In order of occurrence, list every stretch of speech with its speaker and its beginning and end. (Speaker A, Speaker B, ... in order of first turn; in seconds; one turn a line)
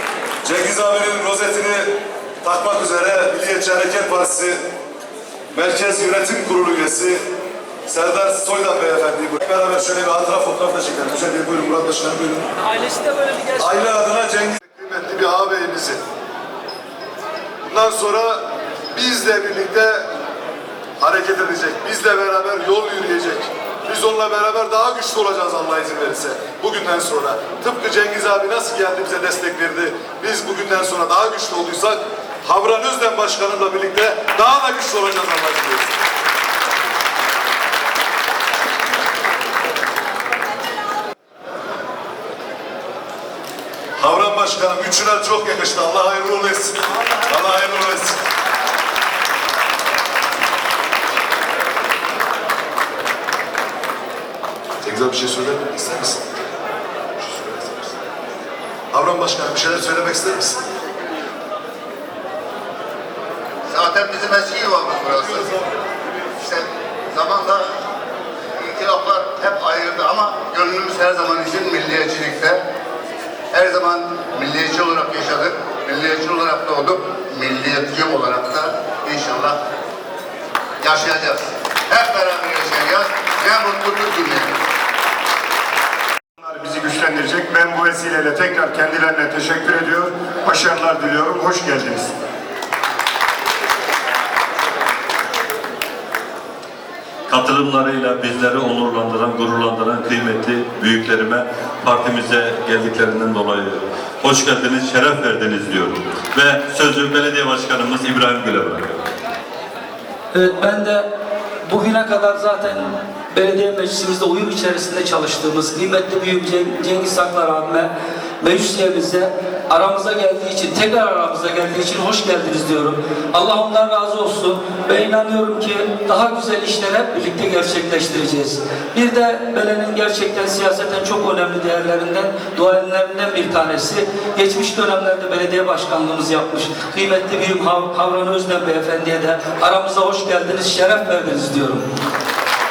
Speaker A: 0.4-4.6
Speaker A: 5.5-7.2
Speaker A: 7.9-12.5
Speaker B: 12.6-13.7
Speaker A: 13.6-16.0
Speaker A: 17.7-18.4
Speaker A: 18.9-20.0
Speaker A: 21.0-36.0
Speaker A: 44.0-48.2
Speaker A: 54.8-56.2
Speaker A: 57.2-57.9
Speaker A: 58.9-60.6
Speaker C: 63.7-65.6
Speaker C: 66.4-67.7
Speaker C: 68.6-72.6
Speaker C: 73.5-79.6
Speaker C: 80.8-84.5
Speaker D: 86.4-92.1
Speaker E: 97.3-109.0
Speaker B: 110.3-111.1
Speaker B: 111.6-117.9
Speaker B: 118.4-141.8